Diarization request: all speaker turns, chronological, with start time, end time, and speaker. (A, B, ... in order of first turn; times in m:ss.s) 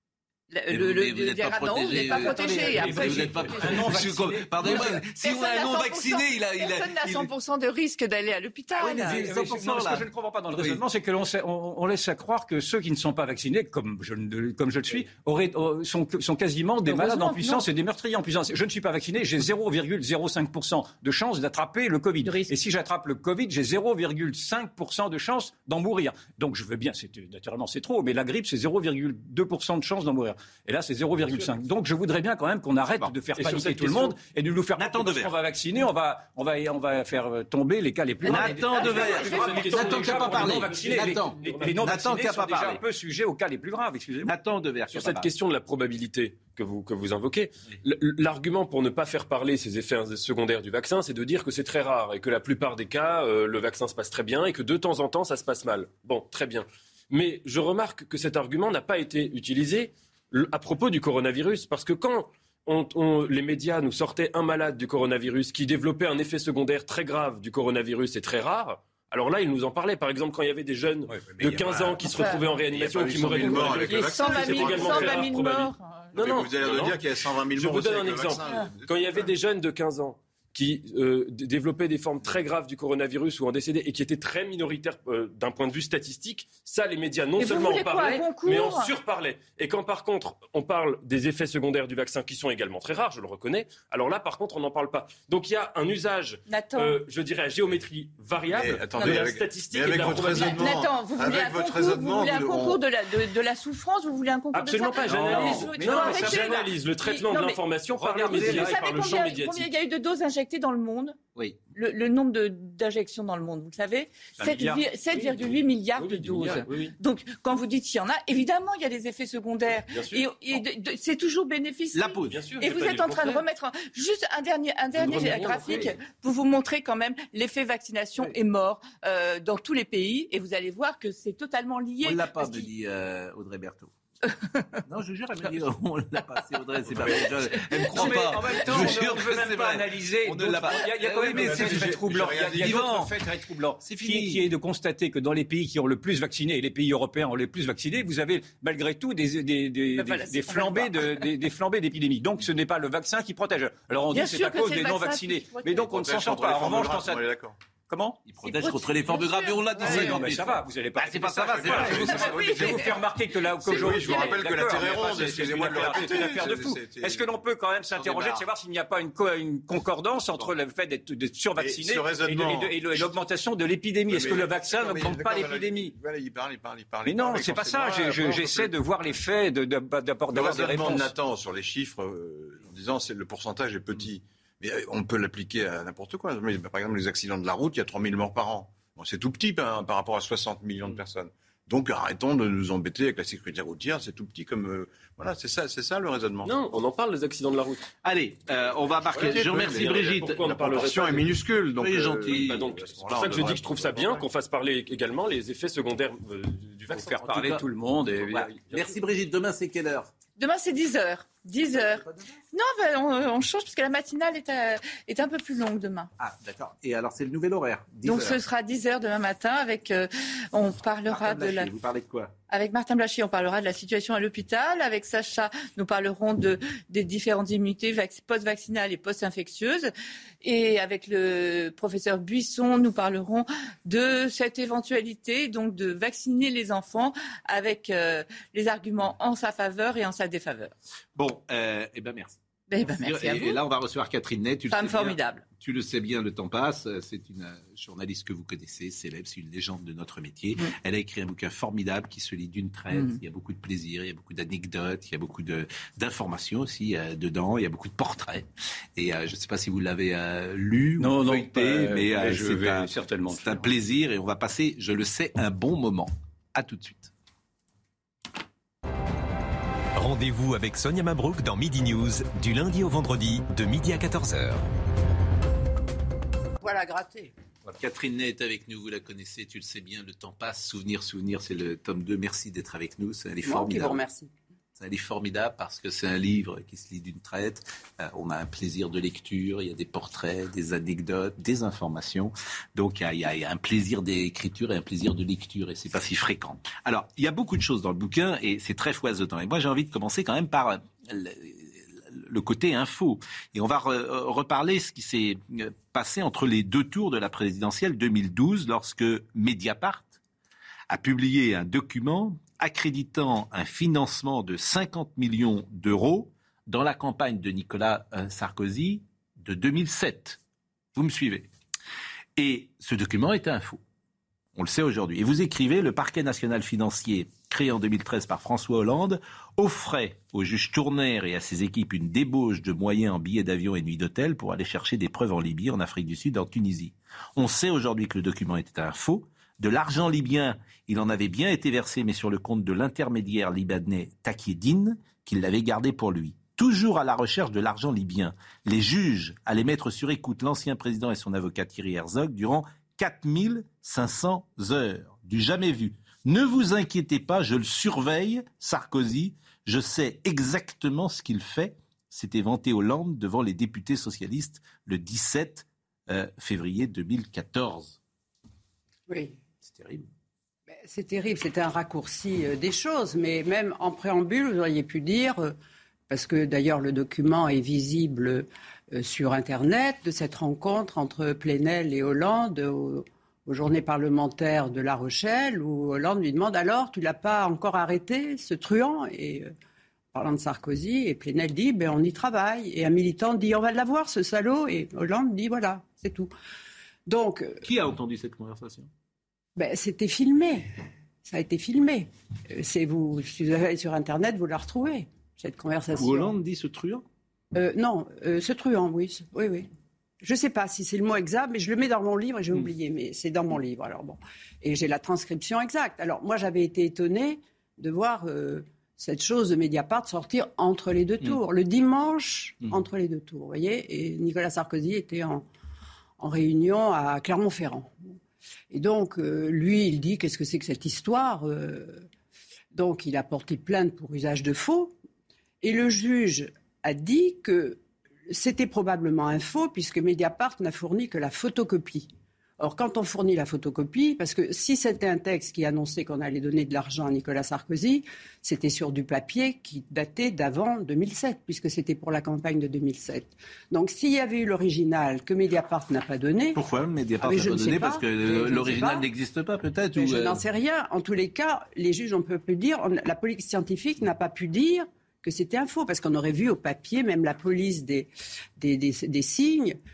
0:00.5-0:09.3 A
0:00.7-0:07.3 B
0:02.2-0:05.0 C
0:08.8-0:10.8 B
0:08.9-0:44.3 C
0:16.8-0:17.7 A
0:22.2-0:22.5 A
0:32.9-0:33.7 B
0:33.4-0:34.1 D
0:34.8-0:35.3 B
0:38.2-0:42.8 B
0:38.7-0:41.8 D
0:44.2-0:45.3 B
0:44.9-1:17.0 D
1:11.3-1:15.3 E
1:12.1-1:12.5 A
1:13.3-1:16.1 A
1:16.1-1:19.3 E
1:17.5-1:40.8 D
1:27.4-1:29.0 A
1:36.5-1:37.0 A
1:38.4-1:42.8 E
1:40.2-1:51.2 A
1:44.5-1:49.7 D
1:45.0-1:45.7 B
1:45.2-1:46.5 C
1:48.0-1:48.8 C
1:51.7-2:12.7 A
1:54.4-1:55.2 C
1:56.0-1:56.9 D
1:56.3-1:56.7 C
1:59.9-2:00.3 D
2:01.9-2:02.5 B
2:02.3-2:03.4 D
2:05.0-2:05.9 D
2:05.0-2:05.9 B
2:12.0-2:13.9 B
2:14.8-2:23.3 B
2:16.9-2:17.2 C
2:17.3-2:18.8 A
2:17.9-2:37.3 C
2:21.3-2:22.9 E
2:23.8-2:24.5 B
2:29.9-2:31.3 A
2:34.1-2:35.9 A
2:35.9-2:37.6 E
2:37.9-2:38.2 C
2:38.2-2:42.7 B
2:38.4-2:40.2 A
2:39.8-2:55.9 C
2:41.5-2:43.0 E
2:42.0-2:42.9 A
2:43.6-2:47.3 E
2:44.8-2:46.2 B
2:48.0-2:48.4 E
2:51.6-2:53.1 E
2:54.1-2:58.7 E
2:57.0-3:01.1 C
3:00.3-3:16.5 E
3:16.4-3:17.9 D
3:18.0-3:21.0 B
3:19.1-3:24.2 E
3:19.8-3:21.3 D
3:21.8-3:22.8 B
3:22.2-3:27.1 D
3:26.9-3:28.6 C
3:27.0-3:30.1 B
3:30.4-3:36.1 A
3:31.8-3:32.3 B
3:36.2-3:38.4 B
3:38.0-3:41.7 A
3:41.0-3:42.3 B
3:42.5-3:49.9 A
3:50.4-4:00.7 A
4:01.2-4:27.1 B
4:02.7-4:03.6 A
4:04.7-4:05.4 A
4:21.0-4:23.7 C
4:29.9-4:34.6 F
4:36.6-4:37.3 G
4:37.6-4:44.0 B
4:43.4-4:44.3 G
4:44.8-5:10.2 B
5:10.9-5:20.4 B
5:20.9-5:21.5 B
5:22.4-5:23.8 B
5:24.5-6:08.0 B
6:09.1-6:09.4 G
6:09.6-6:10.1 B
6:10.7-6:15.5 G
6:16.1-6:29.5 G
6:30.1-6:36.3 G
6:37.0-6:37.6 G
6:37.6-6:38.9 B
6:39.6-6:40.7 G
6:41.2-6:46.4 G
6:46.0-6:47.0 B
6:47.5-6:49.7 G
6:50.2-7:05.4 G
7:06.2-7:08.1 G
7:08.7-7:12.1 G
7:12.7-7:14.9 G
7:15.6-7:36.6 G
7:36.5-7:40.4 B
7:37.2-7:39.1 G
7:39.9-7:49.8 G